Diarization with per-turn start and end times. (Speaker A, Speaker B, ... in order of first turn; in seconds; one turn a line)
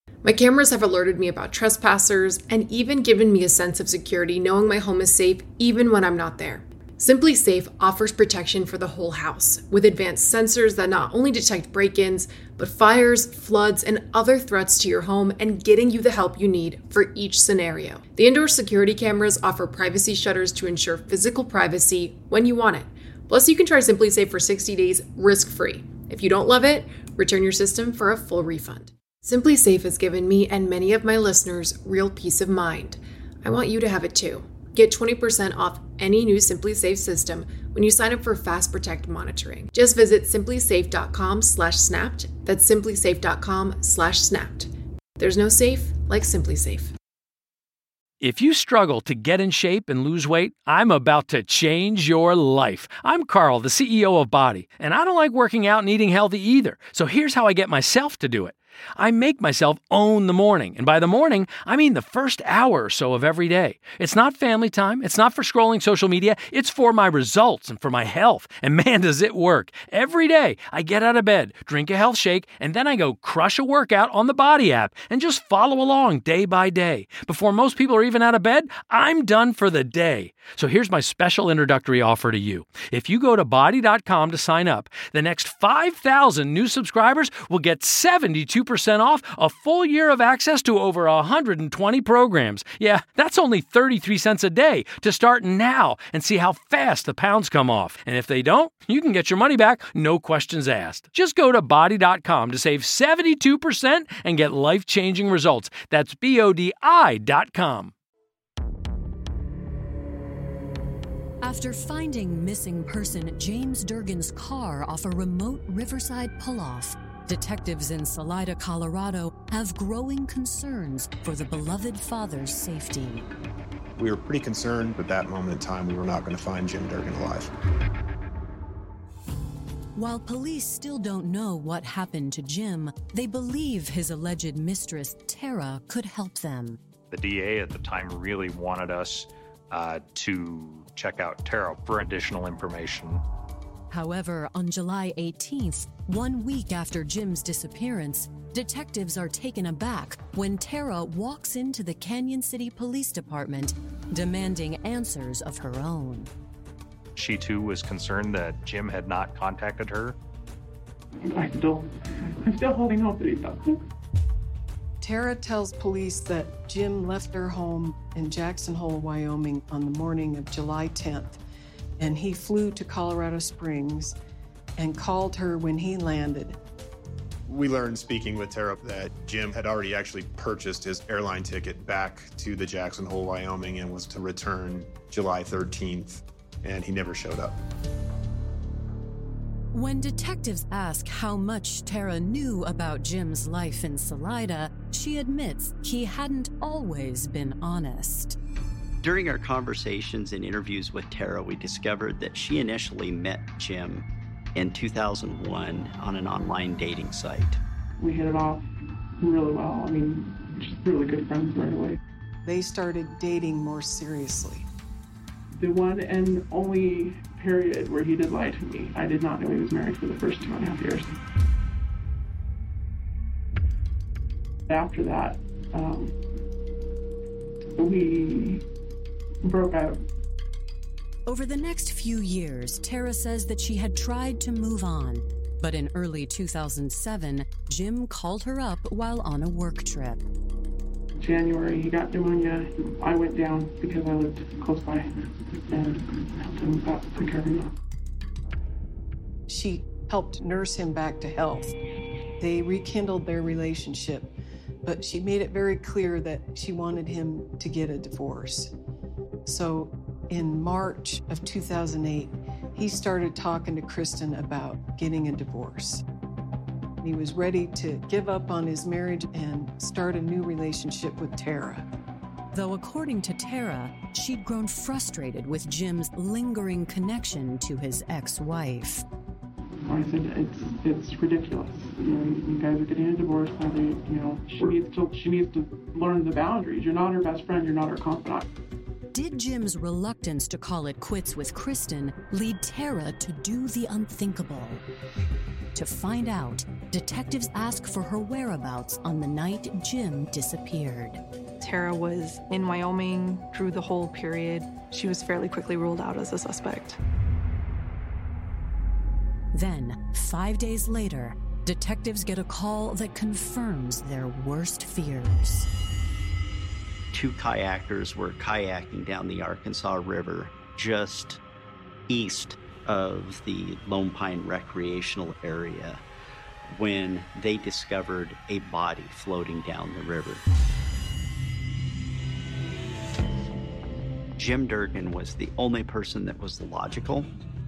Speaker A: 0.2-46.9
Speaker B: 48.2-107.9
Speaker C: 111.4-123.3
Speaker D: 124.0-127.5
Speaker C: 129.9-136.8
Speaker E: 137.1-143.2
Speaker C: 143.9-156.3
Speaker E: 157.2-160.2
Speaker F: 161.2-163.8
Speaker G: 165.0-171.4
Speaker G: 172.0-174.1
Speaker G: 174.8-176.6
Speaker D: 177.5-187.6
Speaker C: 189.7-198.4
Speaker H: 199.0-207.6
Speaker F: 208.0-208.7
Speaker F: 209.2-212.0
Speaker G: 212.4-214.7
Speaker F: 215.5-221.2
Speaker F: 224.7-226.2
Speaker F: 227.8-228.6
Speaker F: 229.4-230.0
Speaker C: 231.2-240.2
Speaker F: 241.2-247.7
Speaker G: 249.5-251.7
Speaker G: 252.4-254.3
Speaker G: 254.8-258.7
Speaker G: 259.4-266.0
Speaker G: 267.0-271.9
Speaker C: 272.5-279.0
Speaker F: 279.8-288.5
Speaker C: 289.1-294.8
Speaker C: 295.7-301.2
Speaker I: 301.6-307.0
Speaker C: 309.5-315.7
Speaker H: 317.1-321.4
Speaker H: 322.1-326.0
Speaker H: 326.6-330.4
Speaker H: 334.4-337.3